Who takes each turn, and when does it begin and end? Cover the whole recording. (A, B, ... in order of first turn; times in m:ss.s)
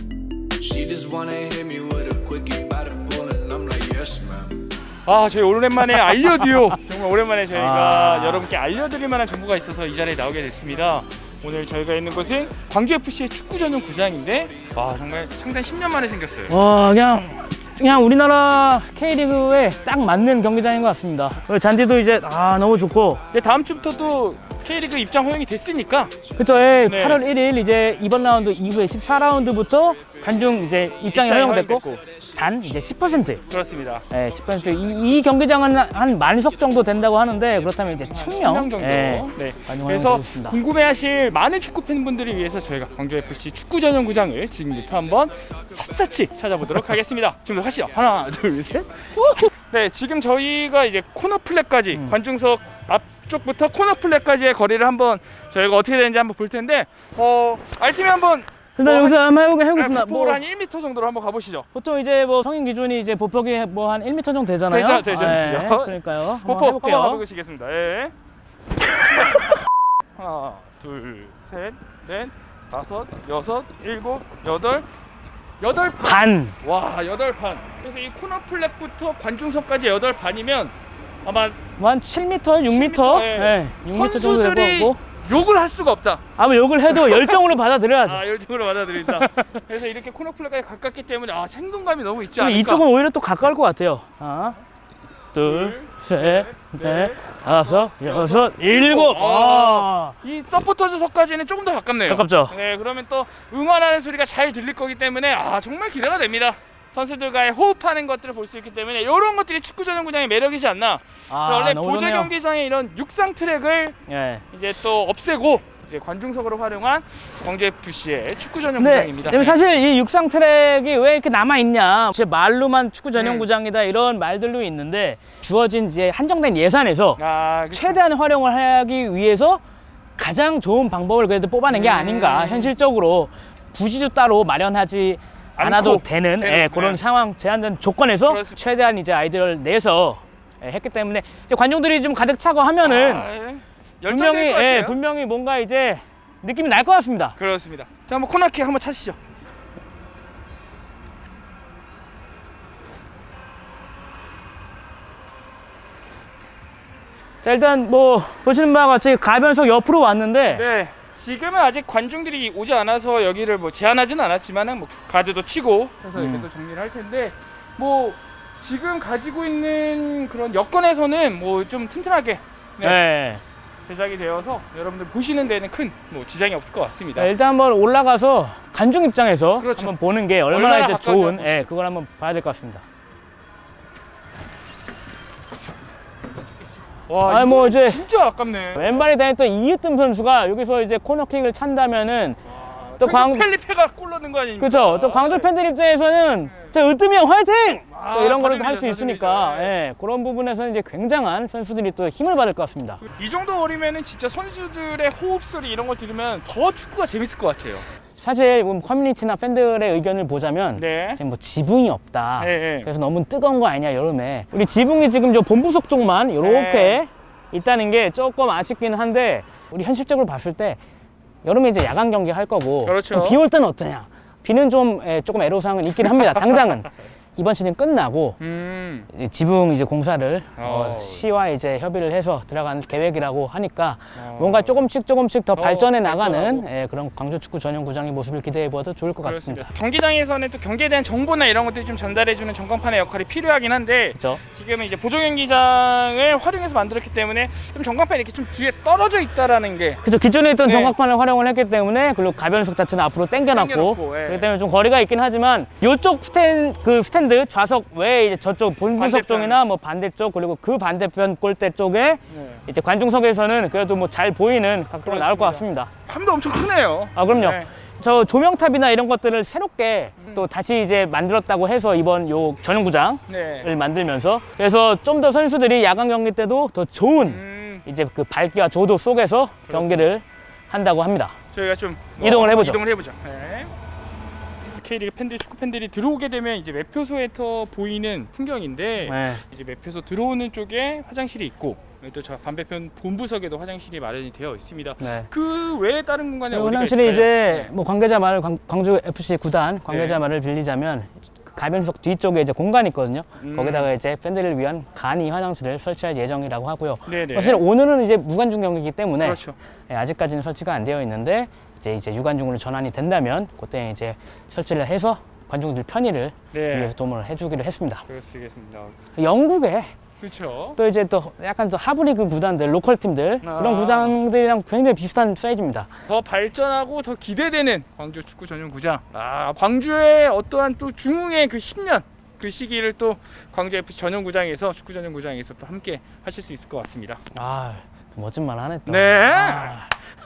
0:00.6-0:04.6 A
0:05.1-0:16.5 B
0:07.5-0:08.5 C
0:16.5-0:23.2 C
0:23.3-0:26.2 B
0:26.3-0:33.4 C
0:26.8-0:27.2 B
0:31.1-0:32.0 B
0:33.5-0:34.1 B
0:34.1-0:40.6 C
0:38.1-0:59.2 B
0:58.8-1:00.4 C
0:59.7-1:01.7 B
1:01.7-1:07.2 C
1:04.7-1:08.1 B
1:10.2-1:14.8 B
1:15.6-1:21.6 B
1:16.0-1:16.6 C
1:21.8-1:25.0 C
1:22.7-1:26.2 B
1:26.4-1:28.3 C
1:26.9-1:27.4 B
1:28.0-1:32.8 B
1:28.9-1:29.5 C
1:32.4-1:34.6 C
1:35.3-1:40.2 C
1:35.4-1:54.0 B
1:42.1-1:42.6 C
1:51.3-1:52.3 C
1:54.1-1:54.4 C
1:54.5-1:59.6 B
1:58.8-2:07.2 C
2:03.2-2:03.5 B
2:07.2-2:08.0 B
2:07.7-2:09.6 C
2:10.2-2:23.3 C
2:11.7-2:12.7 B
2:15.6-2:17.0 B
2:18.3-2:18.6 B
2:22.8-2:25.0 B
2:24.0-2:27.4 C
2:27.4-2:29.2 B
2:37.4-2:40.6 C
2:40.5-2:53.0 B
2:46.2-2:46.5 C
2:52.8-2:53.4 C
2:53.9-2:57.3 B
2:57.2-3:02.8 C
2:59.6-3:00.0 B
3:00.5-3:01.7 B
3:07.1-3:09.0 B
3:07.2-3:08.0 C
3:08.7-3:12.4 C
3:12.5-3:15.5 B
3:13.0-3:13.5 C
3:14.6-3:23.0 C
3:17.9-3:19.8 B
3:23.0-3:27.8 B
3:28.2-3:40.8 C
3:30.8-3:31.2 B
3:32.4-3:32.9 B
3:36.4-3:37.0 B
3:41.4-3:48.4 C
3:42.8-3:43.4 B
3:48.4-3:49.1 B
3:49.1-3:59.7 C
3:50.6-3:51.2 B
3:54.2-3:54.9 B
3:55.6-3:56.6 B
3:59.2-4:10.0 B
4:04.2-4:04.4 C
4:10.0-4:25.9 C
4:10.6-4:11.0 B
4:13.4-4:14.5 B
4:19.0-4:19.6 B
4:22.3-4:22.6 B
4:25.1-4:27.7 B
4:27.2-4:41.4 C
4:30.2-4:30.5 B
4:33.3-4:33.7 B
4:37.2-4:37.8 B
4:39.7-4:40.1 B
4:41.5-4:43.7 B
4:42.2-4:42.8 C
4:44.8-4:57.7 B
4:49.0-4:49.4 C
4:55.0-4:55.3 C
4:56.5-5:18.0 C
4:59.9-5:00.2 B
5:03.4-5:03.9 B
5:07.1-5:07.6 B
5:09.2-5:09.6 B
5:16.5-5:16.9 B
5:18.1-5:19.0 B
5:19.2-5:19.9 C
5:20.2-5:20.8 B
5:20.8-5:25.9 C
5:23.4-5:24.2 B
5:26.1-5:37.2 B
5:37.3-5:39.9 C
5:38.9-5:39.8 B